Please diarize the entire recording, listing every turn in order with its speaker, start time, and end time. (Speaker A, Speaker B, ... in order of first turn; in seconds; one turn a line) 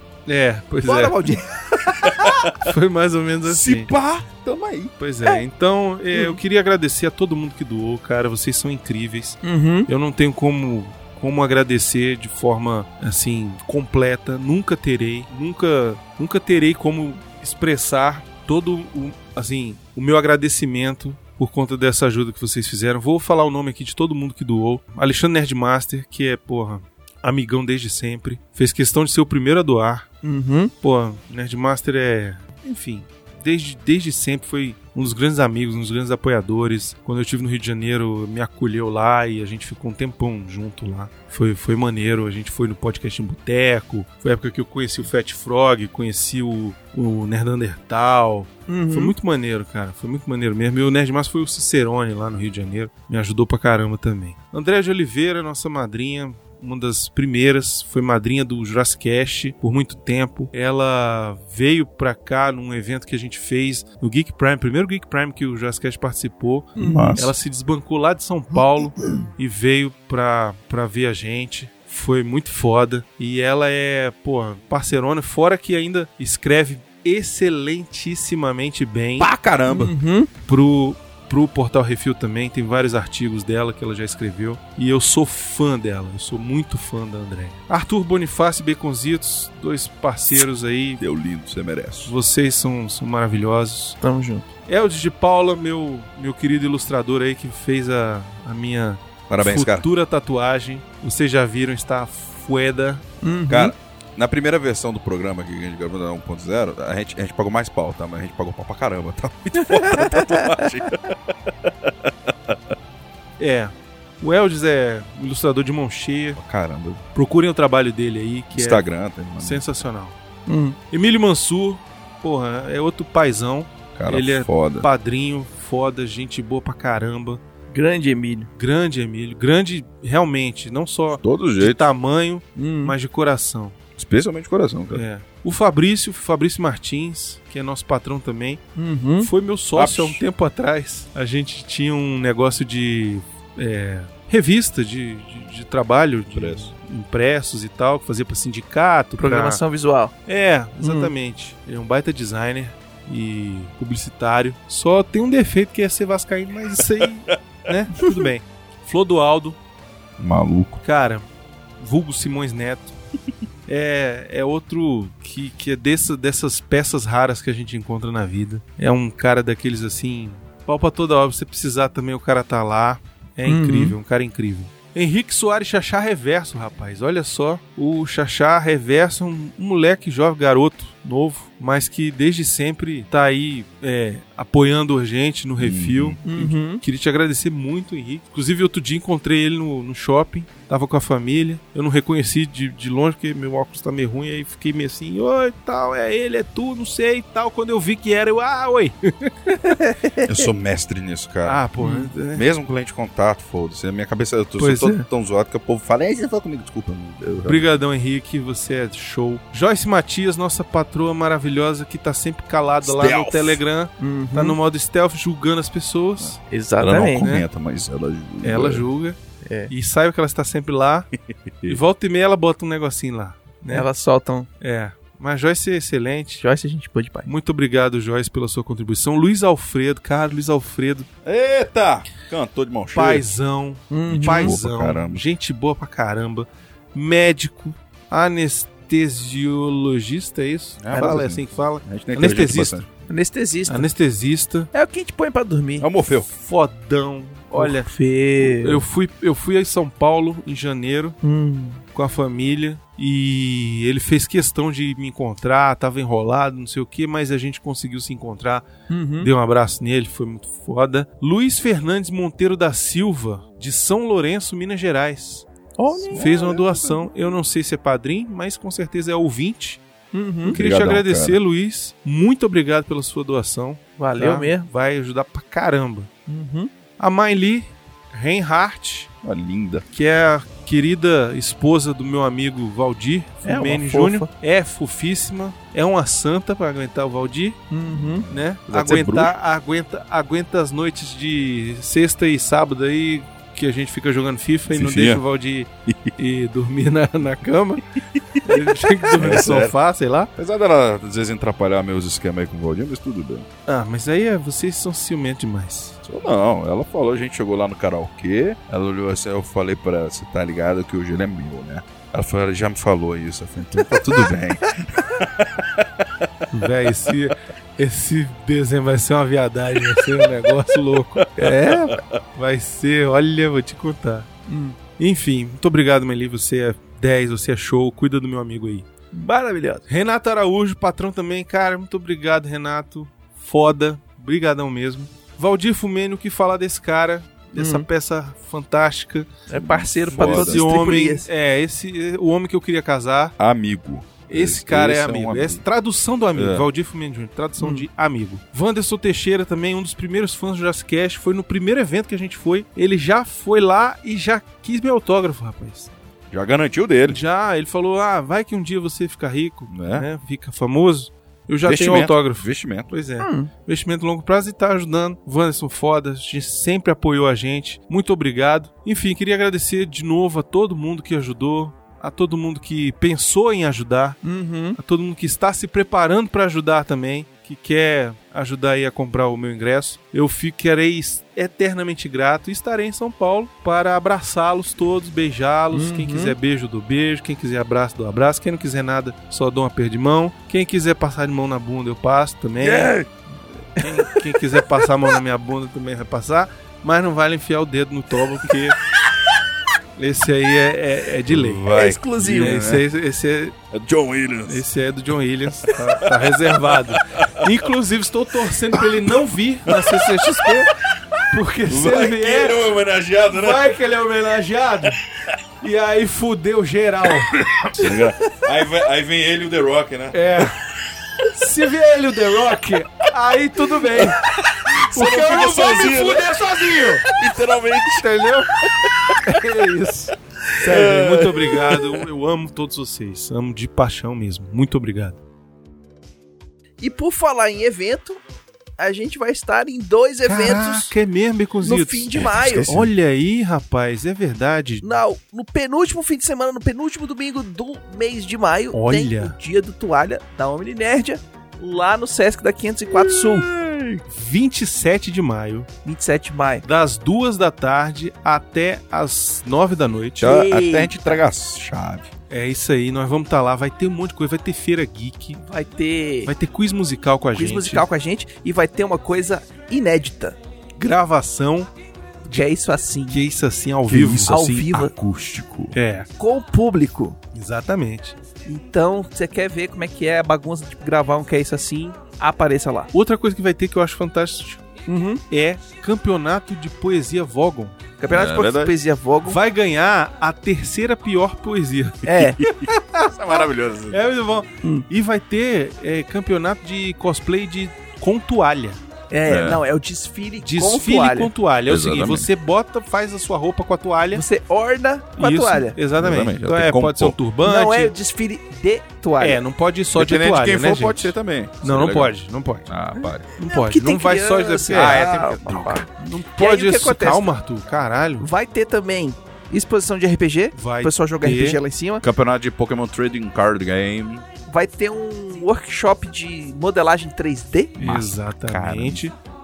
Speaker A: 0.3-1.3
Speaker B: 0.8-2.5
Speaker C: 2.0-2.5
Speaker A: 2.5-3.9
Speaker C: 3.5-4.9
Speaker A: 5.0-30.1
Speaker B: 6.1-6.4
Speaker B: 9.4-9.9
Speaker B: 30.2-30.7
Speaker A: 30.8-79.3
Speaker B: 48.7-49.1
Speaker B: 66.8-67.1
Speaker C: 66.8-67.3
Speaker C: 79.2-80.0
Speaker B: 79.7-80.3
Speaker A: 80.5-91.0
Speaker C: 91.0-92.1
Speaker A: 92.0-94.0
Speaker B: 94.0-94.5
Speaker A: 94.7-103.0
Speaker C: 99.3-99.9
Speaker B: 103.2-103.7
Speaker C: 103.5-112.7
Speaker B: 109.7-110.7
Speaker A: 113.4-116.4
Speaker C: 116.4-117.0
Speaker A: 117.2-118.8
Speaker C: 118.5-119.6
Speaker A: 119.4-120.2
Speaker B: 120.5-120.8
Speaker A: 120.9-127.4
Speaker C: 124.0-124.9
Speaker B: 127.7-128.5
Speaker A: 128.6-133.8
Speaker C: 131.2-131.8
Speaker B: 132.6-132.9
Speaker C: 134.0-135.0
Speaker A: 134.9-138.6
Speaker B: 138.8-139.3
Speaker A: 139.2-149.6
Speaker C: 139.8-140.2
Speaker C: 146.3-146.7
Speaker B: 149.2-150.1
Speaker A: 150.3-159.6
Speaker B: 150.8-151.1
Speaker C: 160.2-160.8
Speaker A: 160.8-161.3
Speaker A: 161.8-162.9
Speaker A: 163.7-199.8
Speaker B: 173.5-174.0
Speaker C: 185.6-186.2
Speaker B: 186.2-186.8
Speaker B: 199.8-200.3
Speaker C: 200.2-201.6
Speaker A: 201.4-202.5
Speaker B: 201.8-202.1
Speaker C: 202.3-207.7
Speaker A: 204.6-205.1
Speaker A: 207.4-217.4
Speaker C: 212.8-213.6
Speaker B: 214.0-214.6
Speaker B: 216.5-217.3
Speaker C: 216.8-218.9
Speaker A: 218.4-219.2
Speaker B: 219.4-219.7
Speaker A: 219.7-221.1
Speaker C: 221.3-221.8
Speaker A: 221.7-223.9
Speaker B: 223.7-224.5
Speaker A: 224.6-226.4
Speaker B: 226.4-227.3
Speaker A: 227.3-231.1
Speaker C: 231.2-233.2
Speaker A: 232.9-242.8
Speaker B: 233.9-234.6
Speaker C: 234.1-235.2
Speaker C: 240.8-242.9
Speaker B: 243.1-243.9
Speaker A: 243.7-244.7
Speaker B: 244.7-245.9
Speaker C: 245.8-246.3
Speaker A: 246.3-251.2
Speaker B: 247.5-248.8
Speaker B: 251.2-251.8
Speaker A: 251.9-258.7
Speaker B: 258.9-259.3
Speaker A: 259.2-265.5
Speaker B: 265.8-266.3
Speaker C: 266.1-267.1
Speaker A: 266.1-269.8
Speaker B: 270.1-270.6
Speaker C: 270.5-271.4
Speaker A: 270.5-276.1
Speaker B: 274.0-274.7
Speaker B: 276.3-276.7
Speaker A: 277.0-279.1
Speaker C: 279.2-279.9
Speaker A: 279.9-287.6
Speaker B: 283.4-284.3
Speaker B: 287.7-288.3
Speaker C: 287.9-289.3
Speaker A: 288.3-297.9
Speaker C: 294.7-295.2
Speaker C: 295.9-296.1
Speaker C: 298.2-299.8
Speaker A: 298.4-300.3
Speaker C: 300.4-303.5
Speaker A: 303.7-306.0
Speaker C: 306.0-316.3
Speaker A: 316.5-324.3
Speaker C: 319.8-320.5
Speaker C: 321.2-322.2
Speaker B: 321.5-321.8
Speaker B: 324.5-324.8
Speaker A: 325.0-328.9
Speaker B: 329.1-329.9
Speaker A: 329.9-339.3
Speaker B: 337.6-337.9
Speaker B: 339.5-341.3
Speaker C: 339.6-340.7
Speaker A: 340.1-343.4
Speaker C: 343.4-345.6
Speaker A: 344.3-355.9
Speaker C: 346.4-346.7
Speaker B: 347.6-347.9
Speaker C: 356.3-357.2
Speaker A: 357.1-374.2
Speaker C: 359.7-360.1
Speaker C: 361.7-362.9
Speaker B: 363.2-363.5
Speaker B: 374.2-374.8
Speaker A: 374.8-392.9
Speaker B: 385.7-386.4
Speaker C: 392.6-393.1
Speaker B: 392.7-393.0
Speaker A: 393.8-398.8
Speaker A: 400.0-401.7
Speaker C: 401.3-402.8
Speaker B: 401.7-402.7
Speaker A: 402.3-403.6
Speaker C: 403.7-404.6
Speaker A: 404.5-410.7
Speaker C: 405.6-407.5
Speaker C: 409.7-413.7
Speaker A: 411.3-412.7
Speaker A: 413.3-415.0
Speaker A: 415.6-417.9
Speaker C: 417.4-420.5
Speaker A: 420.1-420.6
Speaker A: 421.3-424.2
Speaker C: 423.9-429.4
Speaker A: 424.9-427.1
Speaker A: 428.0-428.5
Speaker A: 429.2-435.2
Speaker C: 430.6-432.0
Speaker B: 436.8-438.2
Speaker B: 438.8-440.9
Speaker A: 440.3-444.9
Speaker B: 441.6-442.7
Speaker C: 442.1-442.9
Speaker B: 444.8-453.5
Speaker A: 448.7-449.4
Speaker C: 452.9-454.0
Speaker A: 454.1-455.7
Speaker B: 455.9-456.7
Speaker A: 456.6-460.3
Speaker B: 460.2-461.2
Speaker C: 460.2-462.1
Speaker A: 462.3-465.4
Speaker B: 465.5-466.3
Speaker A: 466.3-467.9
Speaker B: 467.4-470.4
Speaker A: 470.8-471.7
Speaker B: 472.3-473.2
Speaker A: 473.1-474.8
Speaker C: 473.9-475.7
Speaker B: 474.3-474.9
Speaker A: 475.7-476.1
Speaker B: 476.2-477.2
Speaker A: 477.3-478.2
Speaker B: 478.4-482.9
Speaker A: 482.9-484.7
Speaker B: 484.9-485.2
Speaker A: 485.3-487.8
Speaker B: 488.0-489.4
Speaker C: 488.1-488.7
Speaker A: 489.3-498.8
Speaker B: 492.1-492.4
Speaker C: 492.1-494.0
Speaker B: 499.1-501.3
Speaker C: 499.3-499.6
Speaker A: 500.4-504.2
Speaker C: 501.7-502.3
Speaker B: 504.1-505.8
Speaker A: 505.2-507.9
Speaker C: 506.0-507.2
Speaker B: 507.4-509.4
Speaker A: 509.2-512.7
Speaker C: 509.9-512.1
Speaker C: 512.7-513.3
Speaker B: 513.4-517.4
Speaker A: 513.4-515.0
Speaker C: 514.7-515.8
Speaker A: 515.9-518.3
Speaker B: 518.2-522.0
Speaker A: 520.6-521.6
Speaker C: 522.0-524.2
Speaker B: 524.5-527.8
Speaker C: 527.8-529.0
Speaker A: 527.8-529.1